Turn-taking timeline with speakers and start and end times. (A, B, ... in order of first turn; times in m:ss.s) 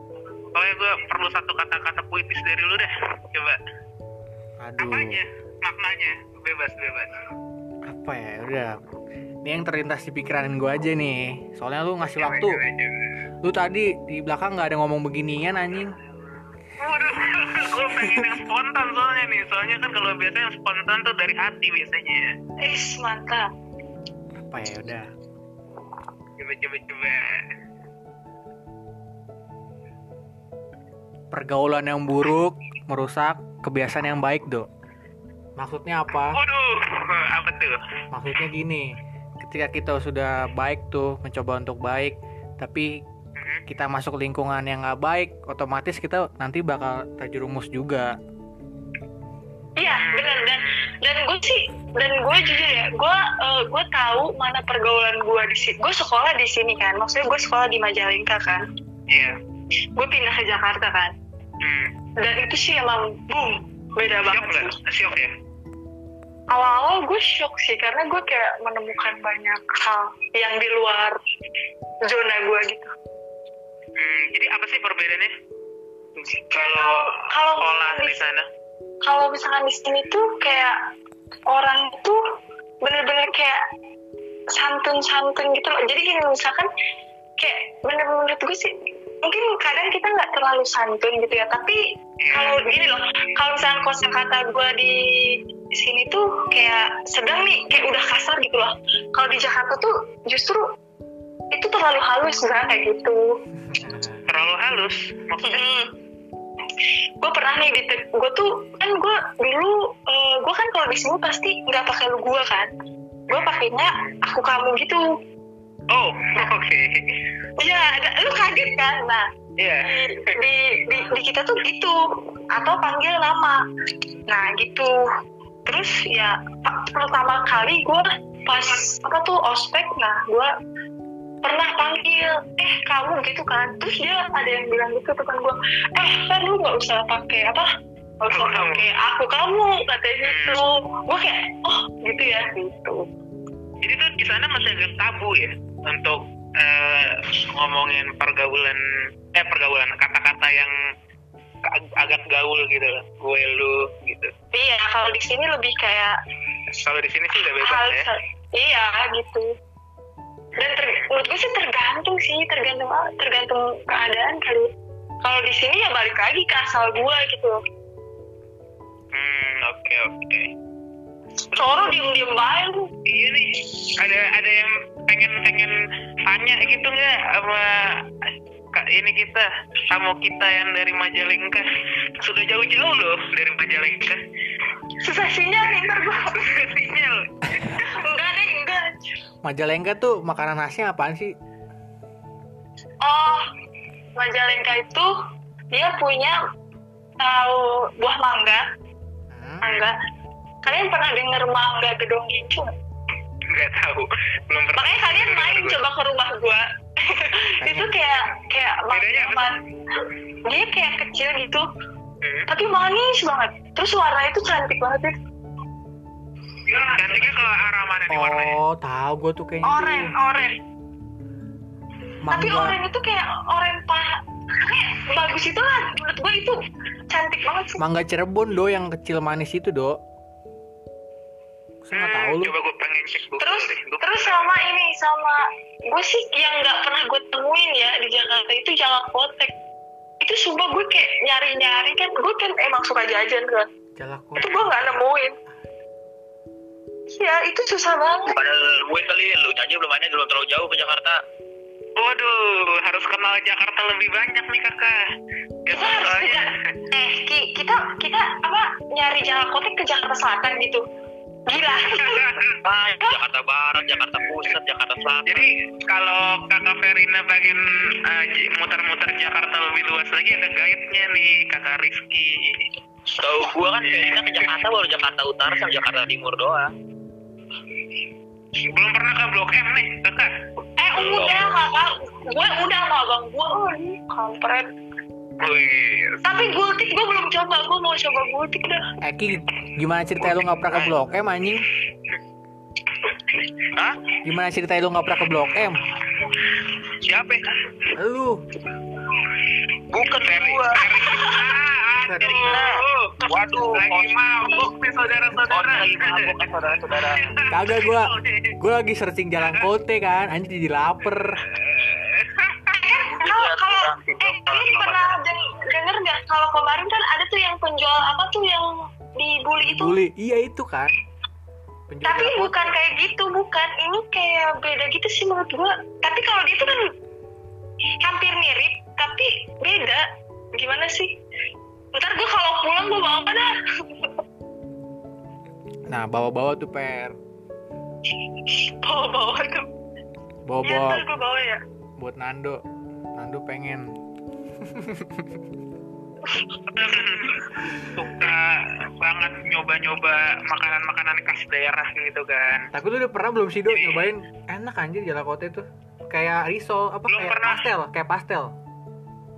0:00.5-0:03.6 A
0:04.6-0:05.2 B
0:04.8-0:07.2 A
0:07.9-0:08.8 B
0:09.4-0:12.6 B
0:12.2-0:13.1 A
0:13.4-0:16.0 B
0:16.8-0:22.2 A
0:18.0-0:18.3 B
0:22.6-0:23.5 C
0:24.5-0:25.1 B
0:26.4-0:27.5 A
0:31.3-0:34.7 B
0:35.6-0:36.4 B
0:36.3-0:37.8 A
0:38.1-0:43.0 B
0:43.4-0:43.6 A
0:43.7-0:48.1 B
0:49.8-0:58.7 C
0:50.0-0:50.9 A
0:59.1-0:59.4 A
1:00.0-1:01.1 C
1:01.6-1:01.9 A
1:02.2-1:04.7 C
1:04.3-1:05.3 A
1:06.5-1:11.2 C
1:12.0-1:12.9 C
1:14.0-1:15.3 A
1:16.2-1:17.0 A
1:16.5-1:18.2 C
1:17.6-1:18.4 A
1:19.0-1:20.8 C
1:21.5-1:22.2 C
1:22.8-1:23.6 C
1:24.5-1:26.7 C
1:27.4-1:31.8 C
1:32.2-1:32.6 A
1:32.3-1:40.7 C
1:41.5-1:43.2 C
1:43.6-1:44.2 B
1:44.3-1:45.6 A
1:45.5-1:45.9 C
1:47.2-1:52.7 C
1:53.3-1:55.1 C
1:53.3-1:54.2 A
1:55.9-1:57.2 A
1:57.6-1:59.3 C
1:59.6-2:00.0 A
1:59.8-2:03.6 C
2:04.3-2:05.0 C
2:05.6-2:10.5 C
2:11.4-2:17.7 C
2:18.2-2:23.1 C
2:18.3-2:18.9 A
2:20.2-2:20.6 A
2:23.8-2:30.7 A
2:31.6-2:34.3 A
2:34.5-2:36.2 C
2:36.7-2:38.1 A
2:37.6-2:39.5 C
2:40.6-2:44.7 C
2:40.6-2:41.1 A
2:45.2-2:47.6 C
2:49.1-2:50.5 A
2:51.5-2:52.9 C
2:51.6-2:51.9 A
2:53.0-2:58.0 A
2:58.7-3:01.7 A
3:02.2-3:04.2 A
3:05.0-3:06.5 C
3:06.3-3:07.6 A
3:07.7-3:09.0 C
3:09.4-3:11.3 B
3:13.0-3:13.5 C
3:14.2-3:15.1 C
3:15.7-3:16.4 C
3:17.2-3:18.6 C
3:19.3-3:19.7 B
3:19.6-3:20.0 C
3:20.6-3:22.7 C
3:23.5-3:25.8 A
3:24.8-3:29.6 C
3:27.6-3:28.0 B
3:28.9-3:29.5 A
3:30.4-3:31.6 C
3:32.2-3:32.5 A
3:32.5-3:35.2 C
3:36.7-3:38.6 A
3:38.1-3:40.1 B
3:39.6-3:40.6 C
3:42.2-3:42.8 B
3:42.3-3:47.8 C
3:47.8-3:50.0 B
3:51.8-3:52.5 B
3:51.9-3:54.4 A
3:53.4-3:59.5 C
4:00.2-4:03.7 C
4:04.0-4:04.9 B
4:04.4-4:05.4 C
4:07.1-4:08.4 C
4:08.3-4:11.2 D
4:12.0-4:15.0 A
4:15.6-4:16.7 A
4:15.7-4:20.8 C
4:21.5-4:22.3 C
4:22.0-4:22.6 A
4:22.6-4:25.5 D
4:25.2-4:32.7 A
4:33.1-4:36.7 D
4:33.8-4:34.5 A
4:38.7-4:40.3 A
4:40.8-4:44.7 C
4:41.0-4:41.5 D
4:45.4-4:46.2 A
4:46.2-4:48.8 C
4:49.0-4:51.7 B
4:50.2-4:50.9 D
4:53.7-4:54.0 D
4:54.2-4:55.8 B
4:57.0-4:57.4 D
4:57.9-4:58.4 B
4:59.9-5:01.4 D
5:00.1-5:06.3 A
5:02.0-5:02.5 B
5:02.3-5:04.1 D
5:05.5-5:07.3 D
5:06.9-5:08.6 A
5:07.5-5:11.4 B
5:09.4-5:09.7 A
5:11.4-5:12.8 A
5:12.7-5:20.0 C
5:13.0-5:15.2 D
5:19.6-5:20.9 B
5:21.9-5:22.8 B
5:22.0-5:26.9 C
5:28.0-5:30.0 C
5:30.6-5:31.1 C
5:31.9-5:34.1 C
5:35.9-5:37.2 B
5:38.4-5:39.7 C
5:40.5-5:41.0 B
5:40.6-5:41.6 C
5:42.0-5:42.6 B
5:43.2-5:43.9 B
5:44.6-5:45.4 B
5:46.7-5:52.7 A
5:52.7-5:58.5 B
5:53.7-5:54.1 A
5:57.1-5:57.6 A